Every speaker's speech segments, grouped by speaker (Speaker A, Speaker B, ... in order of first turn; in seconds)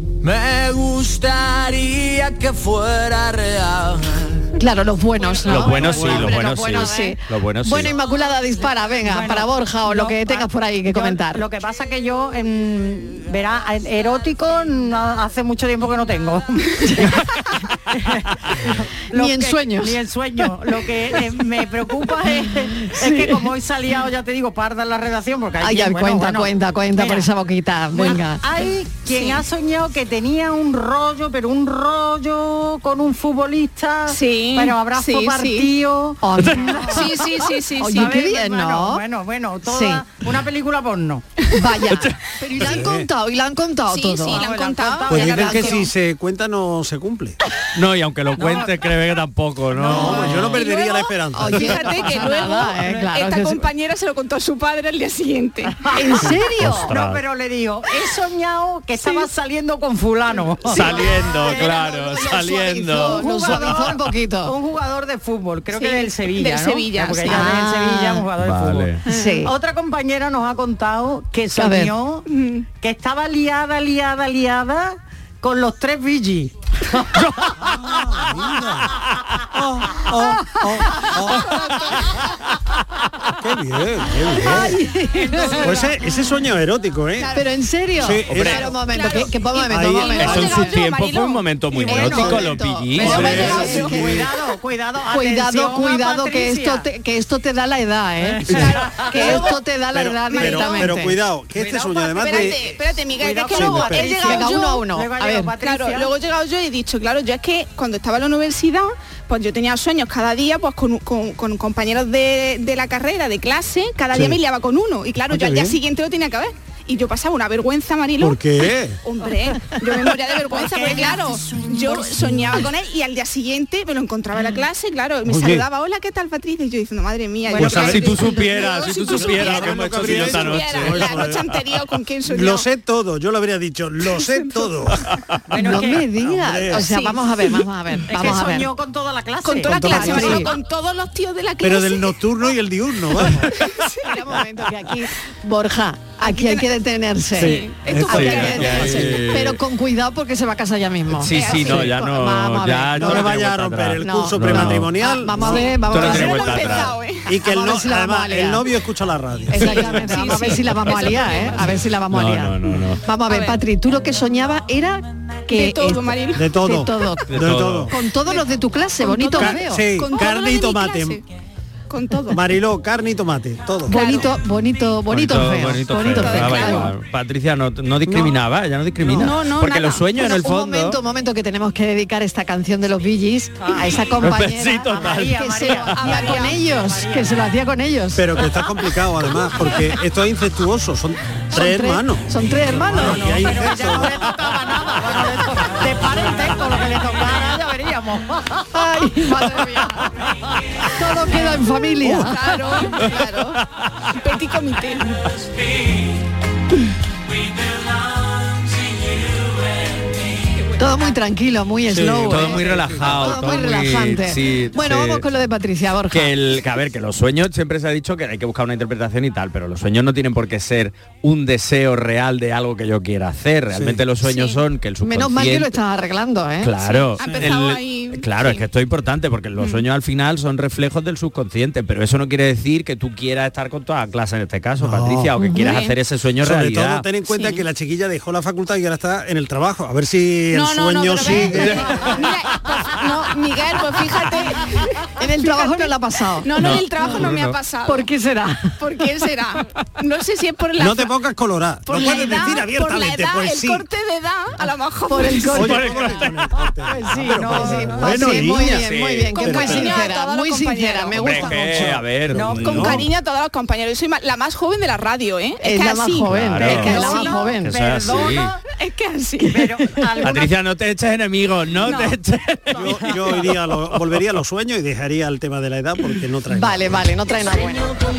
Speaker A: 0.2-4.5
Speaker B: 4.6-11.4, 16.8-17.2, 19.1-20.0, 22.8-23.5, 25.6-28.4, 36.2-39.0, 39.7-40.0, 41.5-44.5, 45.1-45.8, 49.9-50.3, 51.4-53.7, 55.9-56.9, 62.2-64.5, 67.2-68.3, 69.1-69.5, 71.5-71.9, 84.4-85.9, 87.3-90.8, 91.9-94.3, 95.1-101.2, 103.8-105.5, 135.6-138.7, 139.7-140.5, 143.5-153.3, 154.0-156.7, 157.4-158.7, 159.5-167.3, 167.9-169.9, 173.9-176.9, 180.1-188.6, 191.5-193.3, 198.7-200.1, 200.9-203.1, 210.8-216.3, 225.0-226.9, 235.4-235.8, 241.1-241.6, 245.2-249.1, 251.9-252.4, 255.1-256.0, 256.9-261.9, 265.6-267.8, 269.4-270.0, 276.5-278.0
Speaker C: 5.4-8.0, 41.9-42.2, 47.8-50.6, 56.6-57.2, 60.7-63.6, 68.4-69.0, 88.3-88.7, 90.2-94.0, 127.5-131.6, 148.0-149.6, 151.2-157.0, 161.6-163.0, 167.3-167.9, 175.1-181.0, 184.2-185.7, 212.3-215.2, 216.1-225.8, 226.6-237.1, 241.6-242.0, 246.6-247.6, 255.6-256.3, 258.7-259.5, 261.1-263.1, 266.3-268.5, 270.2-273.0
Speaker D: 5.5-6.3, 42.6-43.1, 45.1-47.4, 49.8-52.0, 77.6-78.9, 79.5-81.9, 83.4-84.8, 85.5-87.4, 88.0-88.7, 89.7-90.8, 93.1-94.2, 98.5-102.8, 103.5-104.3, 114.1-114.4, 115.3-115.8, 118.2-119.0, 125.2-125.7, 127.5-131.6, 132.3-135.1, 136.1-136.9, 139.7-140.5, 141.6-143.6, 147.3-149.4, 151.5-151.9, 153.0-156.3, 157.2-161.1, 166.3-168.0, 169.3-171.2, 172.3-174.3, 178.1-178.4, 179.0-179.3, 188.2-194.2, 211.9-213.4, 223.7-224.0, 227.2-227.5, 234.8-235.3, 236.4-242.3, 250.8-253.9, 255.4-260.1, 261.5-263.1, 272.7-277.0
Speaker E: 6.6-7.1, 9.0-17.2, 17.9-27.3, 27.9-36.9, 37.8-41.3, 44.3-45.7, 48.4-48.7, 49.8-50.0, 55.8-56.2, 56.7-61.0, 63.0-77.5, 93.0-96.9, 98.2-99.2, 102.2-102.5, 103.2-106.1, 120.4-122.2, 135.5-136.1, 138.1-140.4, 183.6-184.1, 184.9-187.5, 192.8-198.7, 257.4-258.1, 262.3-262.9, 266.6-268.6, 269.5-270.5
Speaker F: 29.1-29.4, 34.1-35.7, 36.8-38.2, 42.4-42.8, 43.9-45.9, 50.5-55.8, 59.0-59.3, 60.9-62.8, 65.7-67.5, 72.3-72.6, 80.9-82.1, 84.1-84.7, 85.3-86.1, 87.2-87.5, 88.4-94.1, 98.5-99.6, 100.2-101.0, 101.6-104.8, 105.6-132.7, 134.0-135.1, 136.7-137.7, 139.4-144.1, 146.2-146.7, 147.3-148.9, 151.3-151.9, 155.4-157.4, 159.6-161.7, 163.3-163.6, 165.5-167.2, 168.2-168.5, 169.0-171.2, 171.9-172.6, 173.8-174.3, 176.0-176.9, 179.1-180.1, 186.0-186.5, 201.3-205.3, 210.8-211.2, 224.3-224.6, 226.8-228.6, 229.6-229.8, 235.6-235.9, 237.2-237.7, 240.5-248.1, 248.8-251.3, 251.8-256.6, 259.3-261.8, 262.6-267.5, 268.8-269.6, 271.8-272.2, 272.7-273.2